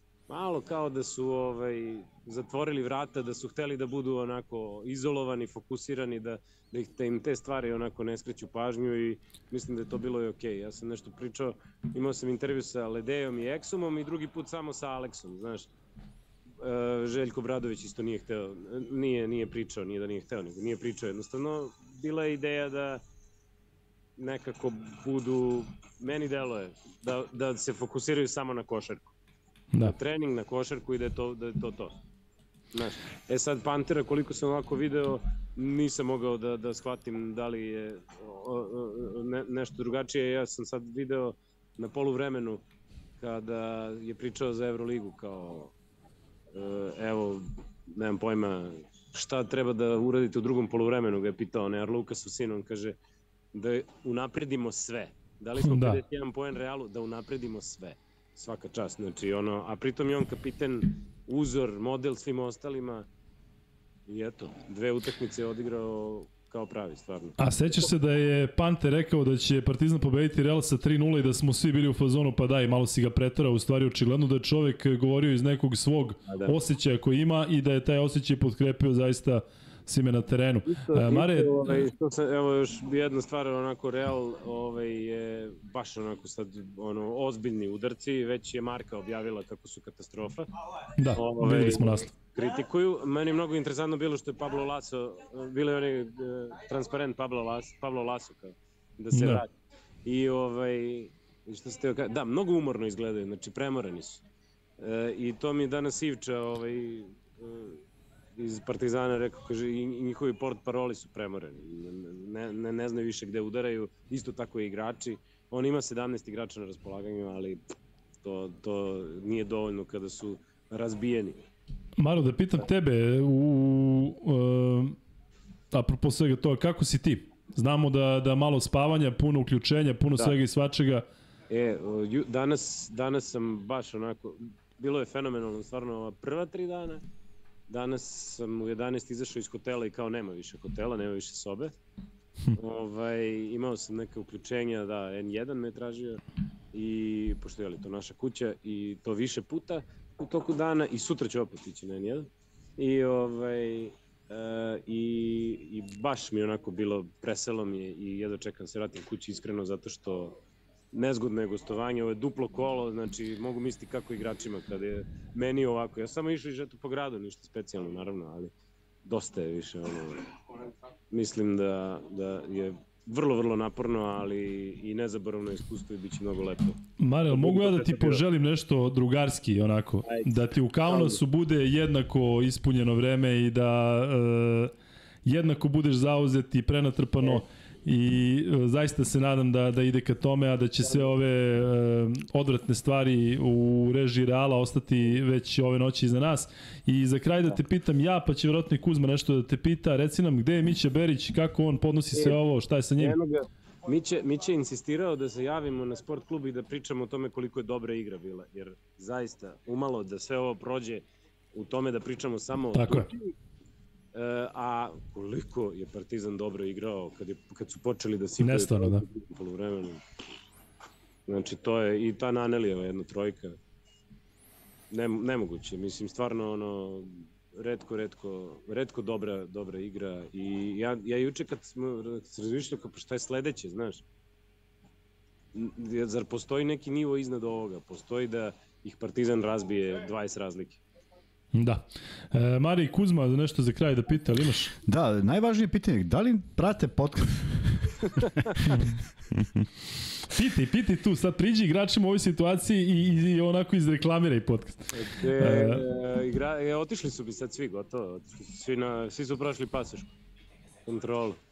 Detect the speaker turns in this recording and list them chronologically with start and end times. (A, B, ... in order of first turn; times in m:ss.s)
0:00.3-0:15.7 A
0:16.6-0:23.0 A
0:24.2-0:29.1 A
0:29.8-0:32.0 A
0:32.7-0:42.6 A
0:43.2-0:45.7 A
0:46.5-0:53.0 A
0:53.5-1:03.1 A
0:55.6-0:56.0 B
1:04.1-1:07.9 A
1:07.4-1:21.9 B
1:16.3-1:16.6 A
1:20.7-1:30.5 A
1:31.0-1:32.1 B
1:31.1-1:39.5 A
1:39.1-1:39.4 B
1:40.0-1:44.2 A
1:44.8-1:47.8 A
1:48.4-1:57.6 A
1:58.2-2:01.4 A
2:02.0-2:05.0 B
2:05.7-2:11.0 B
2:11.5-2:17.0 A
2:17.7-2:21.7 A
2:22.5-2:40.4 A
2:40.9-2:48.5 A
2:49.0-2:56.8 A
2:57.0-3:04.7 B
2:57.3-2:58.2 A
3:00.1-3:00.3 A
3:00.9-3:01.2 A
3:05.3-3:23.2 B
3:23.0-3:33.3 A
3:32.8-3:33.1 B
3:34.1-3:40.0 A
3:38.4-3:39.0 B
3:41.3-3:43.6 A
3:44.9-3:54.0 A
3:55.5-4:00.8 A
4:01.5-4:04.7 B
4:04.8-4:08.9 C
4:08.6-4:09.6 B
4:10.2-4:15.9 B
4:14.9-4:20.1 A
4:20.9-4:21.4 A